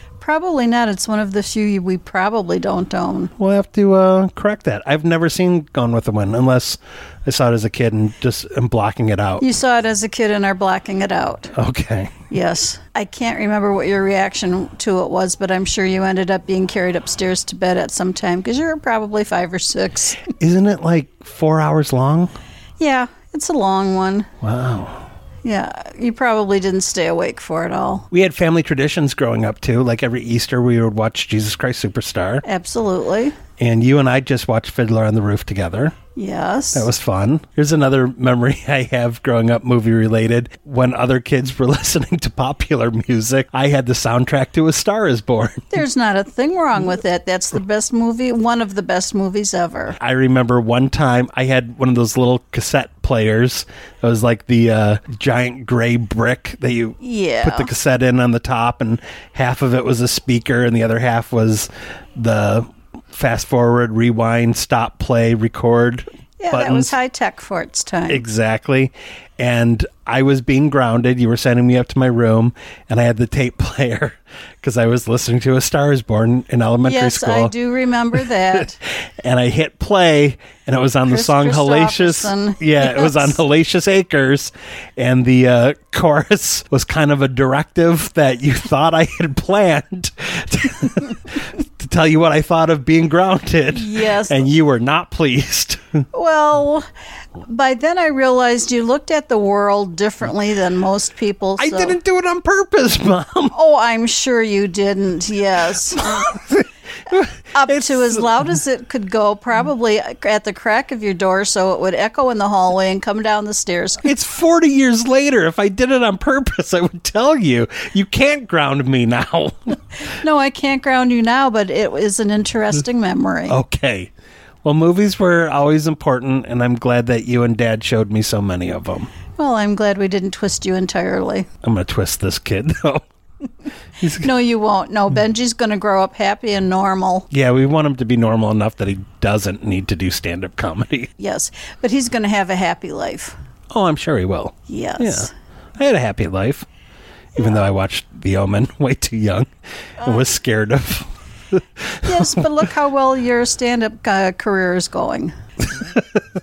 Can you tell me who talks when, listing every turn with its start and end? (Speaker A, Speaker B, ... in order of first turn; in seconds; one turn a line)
Speaker A: 0.2-3.3
Speaker B: 3.4-9.4
Speaker A: 9.4-11.5
Speaker B: 11.6-12.1
Speaker A: 12.3-20.2
Speaker B: 20.4-22.3
Speaker A: 22.8-24.3
Speaker B: 24.4-25.0
Speaker A: 25.4-28.1
Speaker B: 28.1-32.4
Speaker A: 32.5-33.4
Speaker B: 33.6-36.0
Speaker A: 36.1-36.9
Speaker B: 36.8-45.8
Speaker A: 45.7-50.0
Speaker B: 50.0-66.9
Speaker A: 57.0-57.7
Speaker A: 66.4-68.2
Speaker B: 68.1-77.5
Speaker A: 76.8-78.8
Speaker B: 79.2-91.2
Speaker A: 81.1-83.4
Speaker B: 91.8-96.0
Speaker A: 93.7-94.5
Speaker A: 96.1-96.9
Speaker A: 97.5-102.0
Speaker B: 101.6-103.5
Speaker A: 103.5-106.2
Speaker B: 106.0-108.3
Speaker A: 107.5-114.0
Speaker B: 114.0-119.8
Speaker A: 120.2-123.6
Speaker B: 123.5-124.1
Speaker B: 124.6-129.1
Speaker A: 129.4-131.5
Speaker B: 131.6-133.0
Speaker B: 134.0-134.3
Speaker A: 134.2-137.3
Speaker B: 137.3-141.1
Speaker A: 141.2-143.3
Speaker B: 143.7-146.7
Speaker A: 144.7-145.3
Speaker B: 147.4-149.5
Speaker A: 150.0-150.3
Speaker B: 150.0-152.4
Speaker A: 152.1-155.3
Speaker B: 155.8-156.0